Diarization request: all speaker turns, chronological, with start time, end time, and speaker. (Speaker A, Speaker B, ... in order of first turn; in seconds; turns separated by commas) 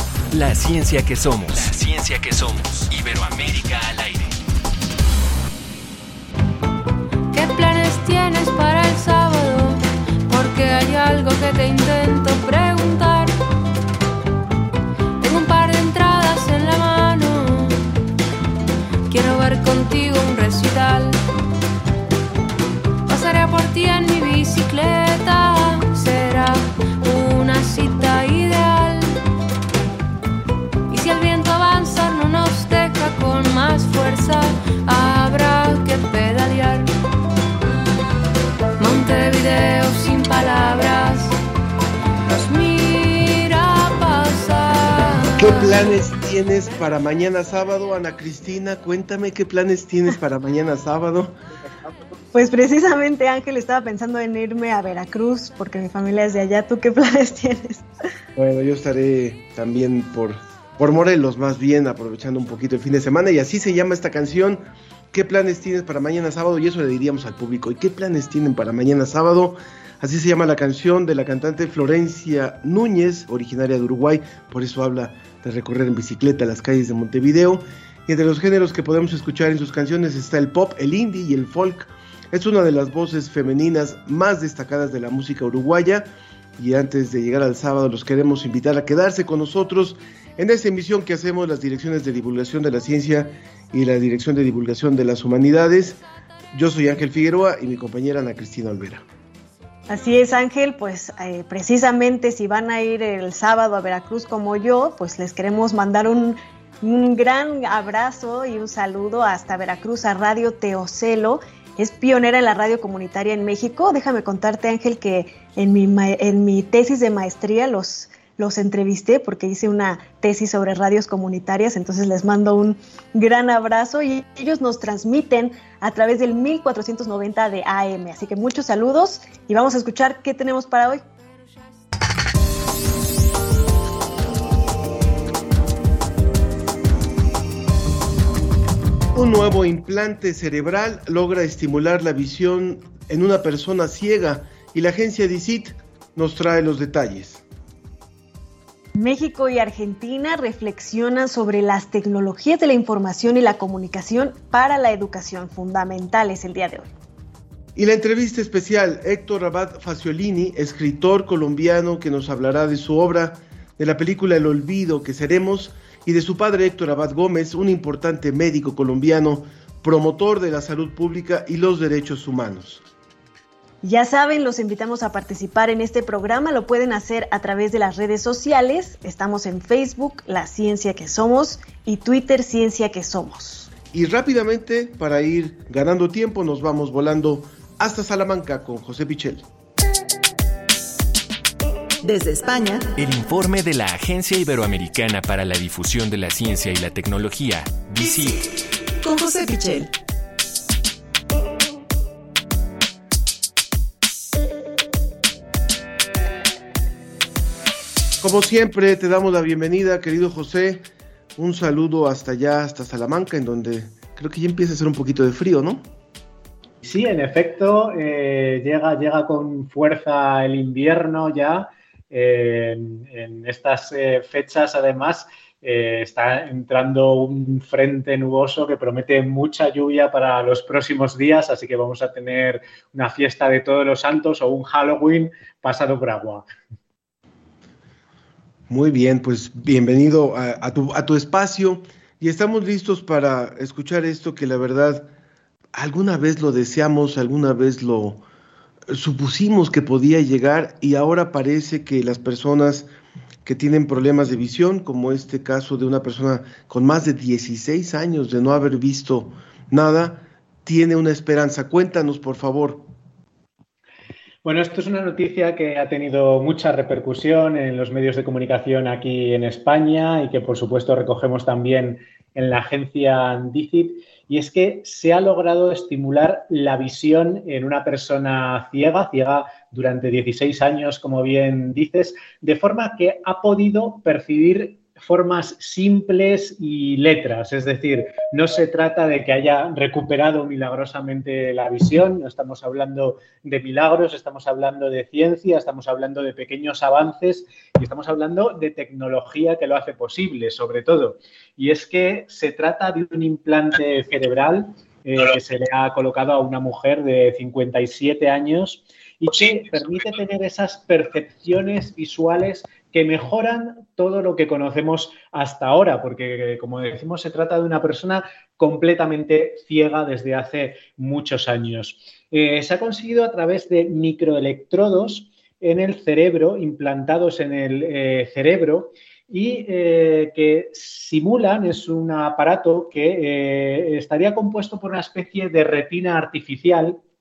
Speaker A: 0.3-4.4, Speaker B: 7.3-13.3, Speaker B: 15.2-17.9, Speaker B: 19.1-21.2, Speaker B: 23.1-29.1, Speaker B: 30.9-36.9, Speaker B: 38.8-41.4, Speaker B: 42.3-45.9, Speaker C: 45.4-51.4, Speaker D: 52.3-57.9, Speaker C: 58.4-96.0, Speaker C: 96.5-99.0, Speaker D: 99.9-131.0, Speaker C: 139.1-147.4, Speaker D: 149.0-156.9, Speaker C: 157.8-172.8, Speaker D: 173.8-183.7, Speaker C: 183.9-189.5, Speaker E: 192.0-192.9, Speaker A: 193.0-198.4, Speaker E: 198.0-198.3, Speaker E: 199.0-199.9, Speaker C: 208.2-215.8, Speaker F: 216.8-236.5, Speaker C: 238.7-245.1, Speaker C: 245.7-248.2, Speaker C: 248.9-252.9, Speaker C: 253.4-262.9, Speaker F: 264.4-337.0